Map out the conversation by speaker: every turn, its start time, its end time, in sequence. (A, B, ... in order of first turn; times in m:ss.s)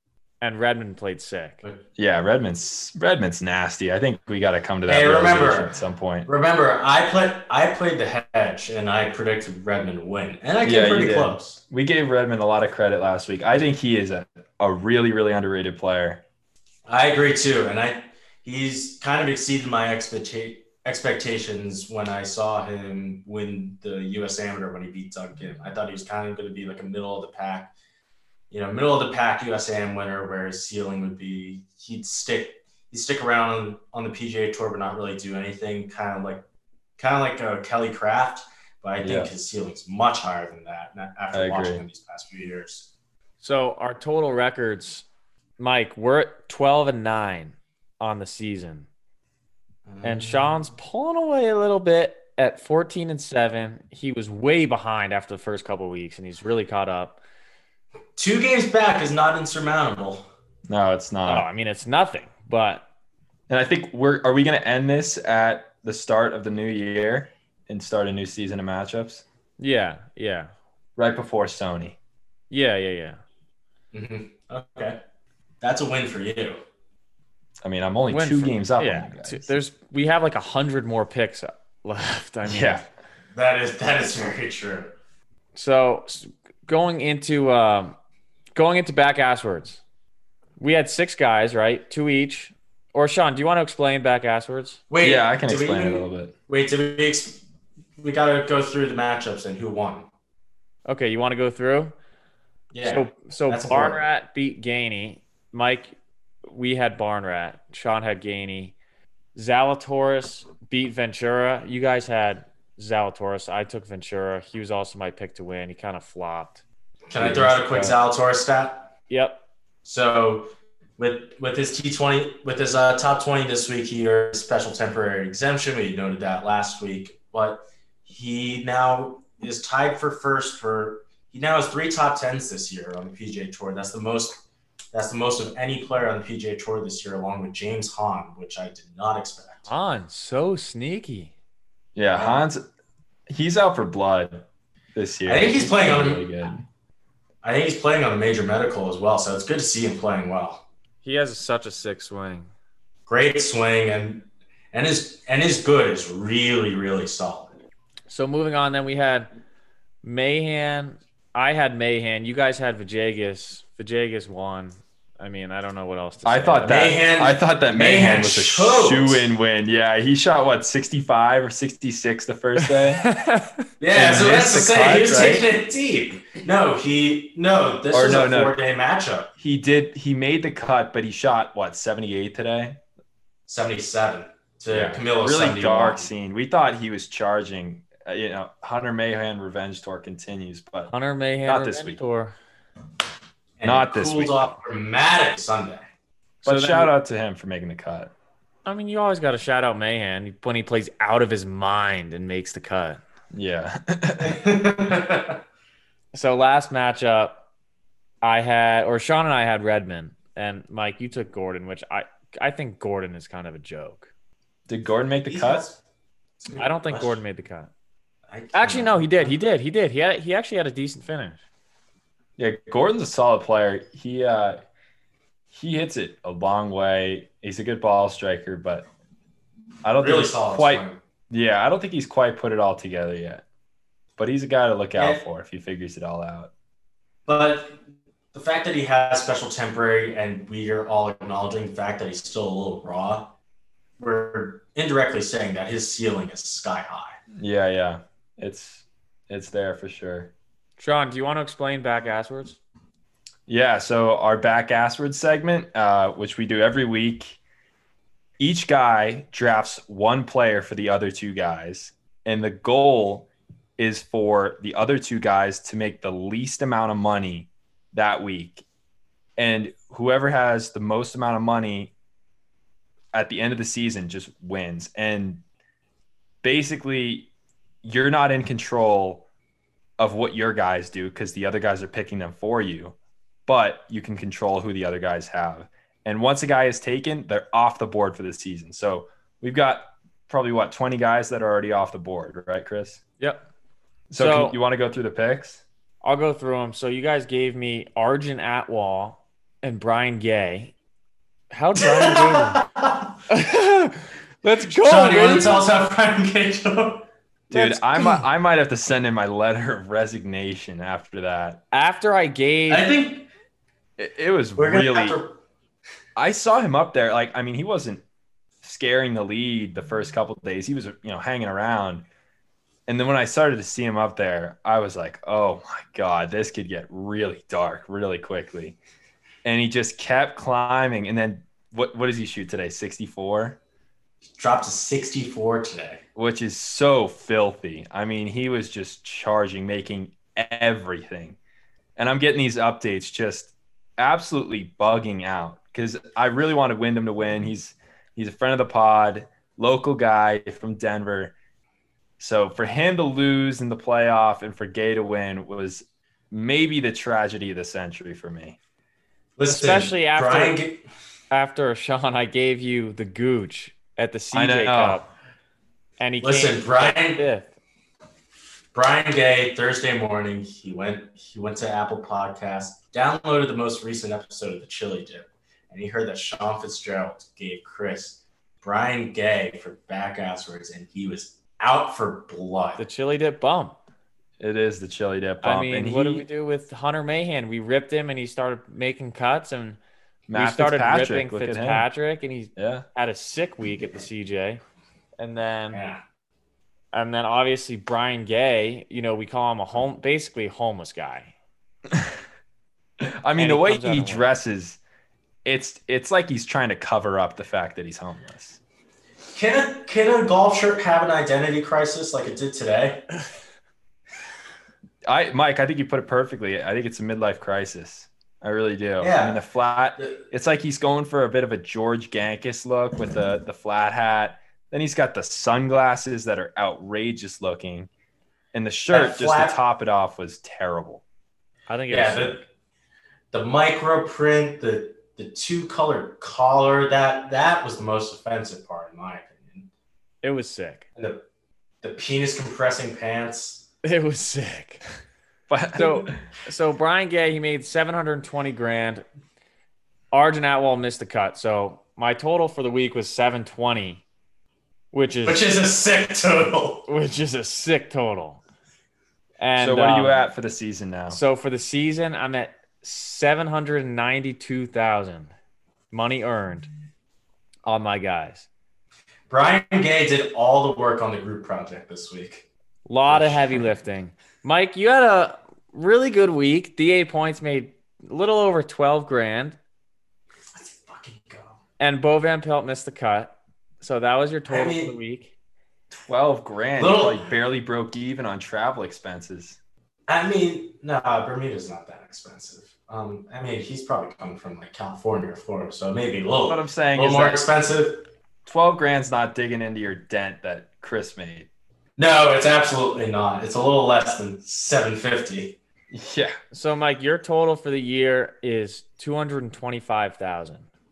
0:00.4-0:01.6 A
0:02.0-0:06.3 B
0:04.9-0:11.6 C
0:10.6-0:16.2 B
0:16.9-0:27.7 C
0:28.5-0:36.4 C
0:37.0-0:42.9 C
0:39.0-0:39.3 B
0:41.3-0:41.8 B
0:43.4-0:45.0 A
0:45.6-0:48.9 A
0:49.9-0:50.6 C
0:50.0-0:57.2 A
0:58.2-1:00.3 C
1:00.7-1:01.5 B
1:01.2-1:02.9 A
1:03.5-1:09.2 B
1:09.6-1:10.5 A
1:11.0-1:12.0 B
1:12.5-1:13.2 A
1:13.9-1:15.0 C
1:15.6-1:16.6 C
1:17.6-1:19.5 B
1:18.1-1:22.8 A
1:22.4-1:22.8 B
1:23.4-1:24.9 C
1:25.5-1:28.0 A
1:28.6-1:29.8 A
1:30.6-1:34.8 A
1:34.9-1:37.4 C
1:35.0-1:36.3 B
1:38.0-1:40.1 C
1:40.9-1:41.9 A
1:42.7-1:44.0 C
1:42.8-1:45.9 A
1:46.5-1:48.8 A
1:49.4-1:56.6 A
1:57.1-1:58.9 C
1:57.2-1:57.9 B
1:59.1-1:59.4 A
1:59.8-2:14.4 C
2:14.9-2:19.7 C
2:19.7-2:21.3 A
2:22.0-2:22.7 B
2:22.2-2:22.4 C
2:23.3-2:26.6 B
2:25.3-2:26.6 C
2:27.4-2:30.6 C
2:31.0-2:32.5 A
2:33.1-2:37.6 C
2:38.1-2:39.3 A
2:40.0-2:46.8 A
2:46.2-2:53.0 B
2:46.7-2:49.3 C
2:52.6-2:53.6 A
2:53.8-2:59.3 C
2:53.9-2:55.5 B
2:57.9-2:58.6 B
2:59.4-3:02.8 B
3:03.5-3:06.1 C
3:04.7-3:10.9 B
3:10.9-3:12.4 A
3:11.4-3:12.0 B
3:13.6-3:15.9 C
3:13.6-3:14.5 B
3:16.4-3:16.9 A
3:16.4-3:18.1 B
3:18.6-3:23.0 A
3:23.3-3:24.4 B
3:24.2-3:25.4 C
3:26.1-3:27.4 A
3:28.2-3:34.1 A
3:34.7-3:35.7 B
3:35.3-3:35.8 C
3:36.4-3:37.2 C
3:36.6-3:37.7 A
3:38.3-3:39.4 C
3:38.5-3:41.4 A
3:42.4-3:44.6 B
3:45.5-3:48.9 B
3:49.8-3:53.4 B
3:50.0-3:51.0 C
3:54.2-3:56.5 B
3:55.0-3:55.2 C
3:57.3-3:57.8 C
3:58.3-4:03.3 C
4:04.0-4:07.2 C
4:07.4-4:10.3 B
4:10.8-4:12.6 A
4:13.5-4:17.4 B
4:18.4-4:28.6 B
4:29.4-4:31.9 B
4:33.1-4:35.4 B
4:36.4-4:37.3 B
4:37.8-4:39.3 B
4:40.0-4:43.0 B
4:43.5-4:53.0 B
4:54.1-4:55.6 B
4:54.1-4:54.6 A
4:56.0-5:00.7 A
5:01.5-5:02.6 A
5:01.8-5:03.1 C
5:03.3-5:05.7 A
5:04.8-5:08.2 C
5:07.5-5:11.6 B
5:11.7-5:12.9 A
5:12.7-5:13.3 C
5:14.0-5:15.2 B
5:14.6-5:15.4 C
5:16.2-5:18.0 B
5:18.6-5:22.0 B
5:22.9-5:28.8 B
5:29.4-5:33.6 B
5:34.4-5:36.0 C
5:36.2-5:41.4 B
5:42.0-5:51.4 B
5:52.2-5:58.6 B
5:59.4-6:00.8 C
5:59.5-6:00.6 A
6:01.3-6:05.1 A
6:04.3-6:05.0 B
6:06.0-6:07.5 A
6:06.2-6:07.2 C
6:08.7-6:22.8 C
6:22.8-6:23.8 A
6:24.4-6:26.3 B
6:25.4-6:29.8 A
6:30.3-6:31.8 B
6:30.3-6:34.6 A
6:32.6-6:32.8 B
6:35.2-6:35.8 A
6:35.7-6:36.0 C
6:36.9-6:41.3 A
6:43.0-6:44.8 B
6:43.4-6:44.3 A
6:45.4-6:48.6 B
6:49.3-6:53.1 C
6:55.1-7:07.9 B
6:59.0-6:59.4 C
7:00.0-7:00.2 C
7:08.5-7:11.0 B
7:08.9-7:09.6 C
7:11.7-7:12.4 A
7:11.9-7:12.4 C
7:13.3-7:19.7 C
7:20.2-7:20.9 A
7:21.8-7:23.7 C
7:23.8-7:24.8 A
7:25.5-7:26.2 B
7:25.8-7:29.0 A
7:30.1-7:34.0 A
7:34.9-7:35.5 A
7:35.3-7:36.9 C
7:36.9-7:38.4 A
7:39.4-7:40.2 A
7:39.6-7:41.2 B
7:41.1-7:45.3 A
7:45.9-7:46.7 A
7:47.6-7:48.5 A
7:49.3-7:52.5 C
7:52.9-7:59.6 A
7:53.1-7:53.7 C
8:00.5-8:01.6 C
8:01.8-8:05.3 A
8:04.5-8:05.0 C
8:05.9-8:09.6 B
8:06.8-8:07.3 C
8:10.1-8:18.1 C
8:16.5-8:17.4 B
8:18.5-8:21.5 B
8:22.0-8:25.6 C
8:25.9-8:26.4 B
8:26.5-8:30.7 A